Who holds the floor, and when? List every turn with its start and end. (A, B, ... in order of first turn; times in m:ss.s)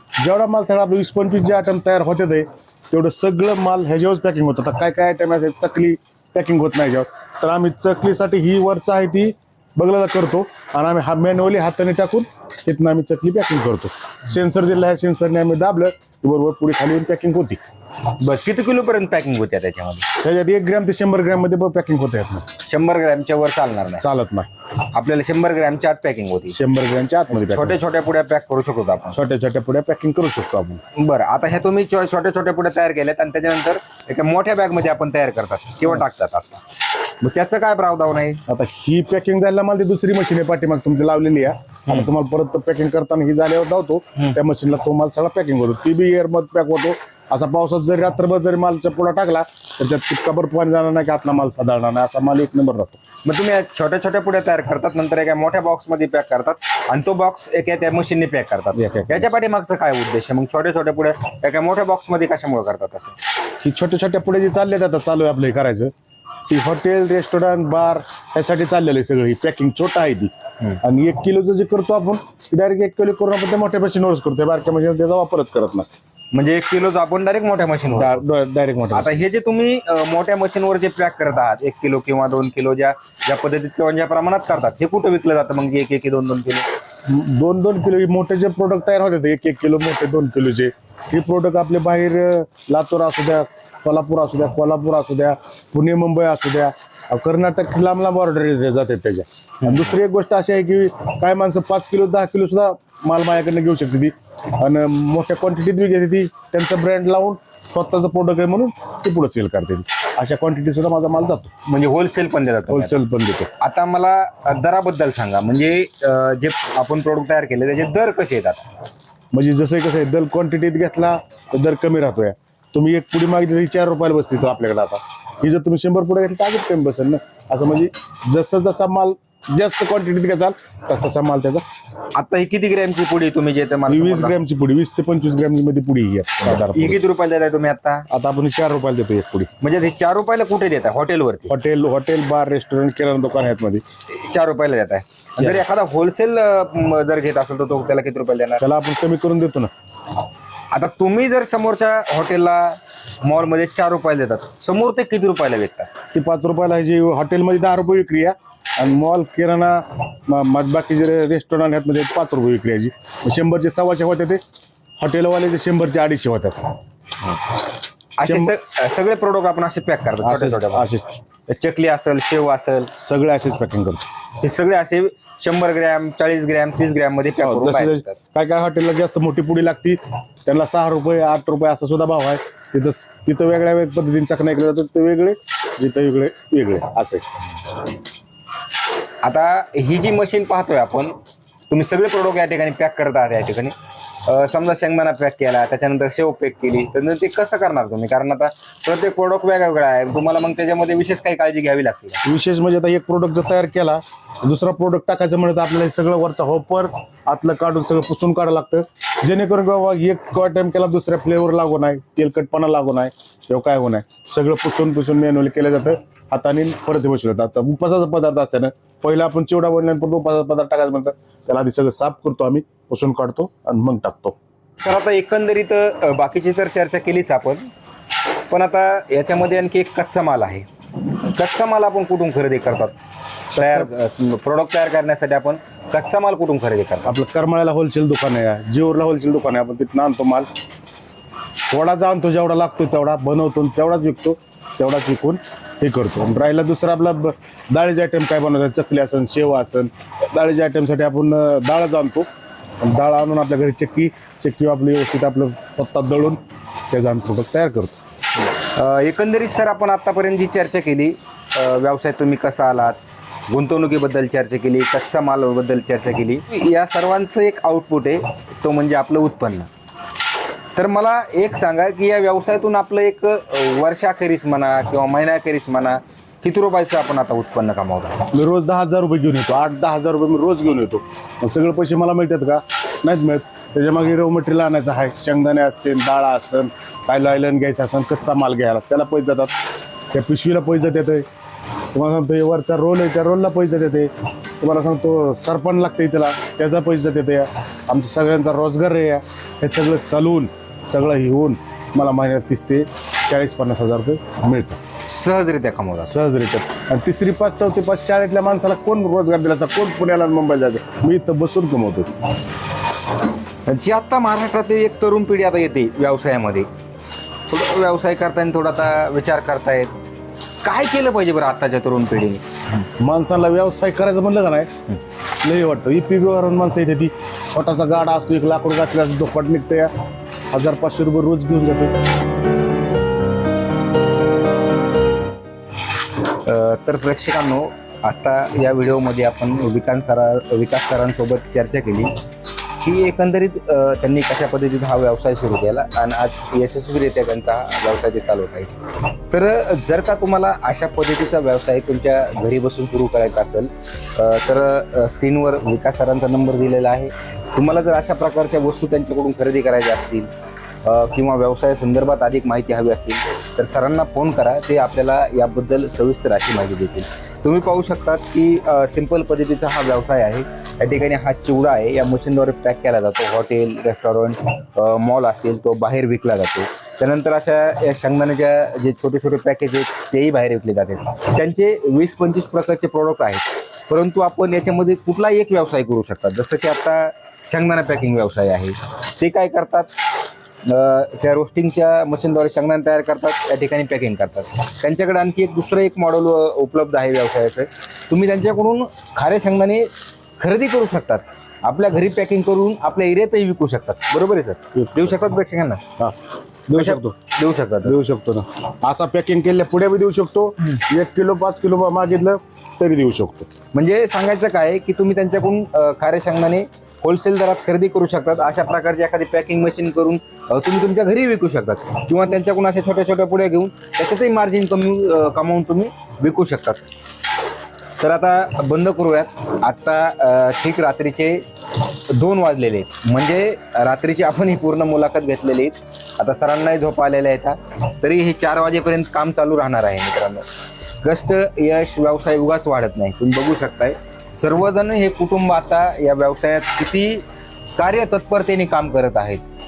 0:00.2-0:17.6 A
0:18.0-0:20.1 B
0:20.2-0:22.5 A
0:22.6-0:24.0 B
0:24.0-0:24.5 A
0:24.8-0:26.6 B
0:26.5-0:27.8 A
0:27.3-0:29.2 B
0:29.1-0:30.8 A
0:30.9-0:36.6 B
0:37.2-0:38.4 B
0:38.5-0:53.0 A
0:41.9-0:42.1 B
0:53.2-1:03.2 B
0:58.7-0:59.3 A
1:03.6-1:05.9 A
1:06.5-1:15.9 A
1:16.3-1:18.2 B
1:17.9-1:19.1 A
1:18.9-1:26.7 B
1:27.1-1:51.5 A
1:39.6-1:39.9 B
1:51.6-1:53.0 B
1:52.7-1:53.5 A
1:53.6-1:58.7 B
1:59.3-2:11.6 A
2:12.1-2:14.4 B
2:13.9-2:17.0 A
2:16.4-2:18.1 B
2:18.1-2:19.5 A
2:19.6-2:21.5 B
2:21.5-2:23.8 A
2:24.1-2:28.6 B
2:25.4-2:25.6 A
2:28.6-2:29.7 A
2:30.7-2:35.9 B
2:36.1-2:44.4 A
2:45.0-2:46.8 A
2:48.2-2:50.9 B
2:48.2-2:48.5 A
2:50.2-2:51.2 A
2:51.5-2:52.9 B
2:53.0-2:54.0 A
2:54.4-2:58.2 B
2:57.4-3:07.3 A
3:09.2-3:11.2 B
3:11.7-3:13.7 B
3:14.2-3:22.2 B
3:22.2-3:44.4 A
3:44.8-3:47.7 B
3:48.5-3:53.0 B
3:53.5-3:57.1 B
3:53.6-3:53.9 A
3:57.0-4:00.5 A
4:01.7-4:12.3 A
4:12.8-4:16.4 A
4:16.9-4:17.9 A
4:18.6-4:29.7 B
4:30.7-4:38.2 B
4:38.3-4:49.5 A
4:50.1-4:51.2 A
4:51.9-5:04.8 A
5:05.1-5:06.1 B
5:06.0-5:12.1 A
5:13.6-5:16.7 B
5:17.5-5:19.9 B
5:20.6-5:22.9 B
5:23.0-5:24.7 A
5:25.4-5:29.9 A
5:30.5-5:32.0 A
5:36.2-5:42.1 B
5:42.8-6:00.3 B
6:00.8-6:29.9 B
6:30.6-6:45.8 B
6:44.7-6:45.2 A
6:46.0-6:47.2 A
6:46.7-6:48.0 B
6:47.8-6:53.5 A
6:53.7-7:06.9 B
7:08.0-7:20.4 B
7:21.0-7:27.2 B
7:27.8-7:29.4 B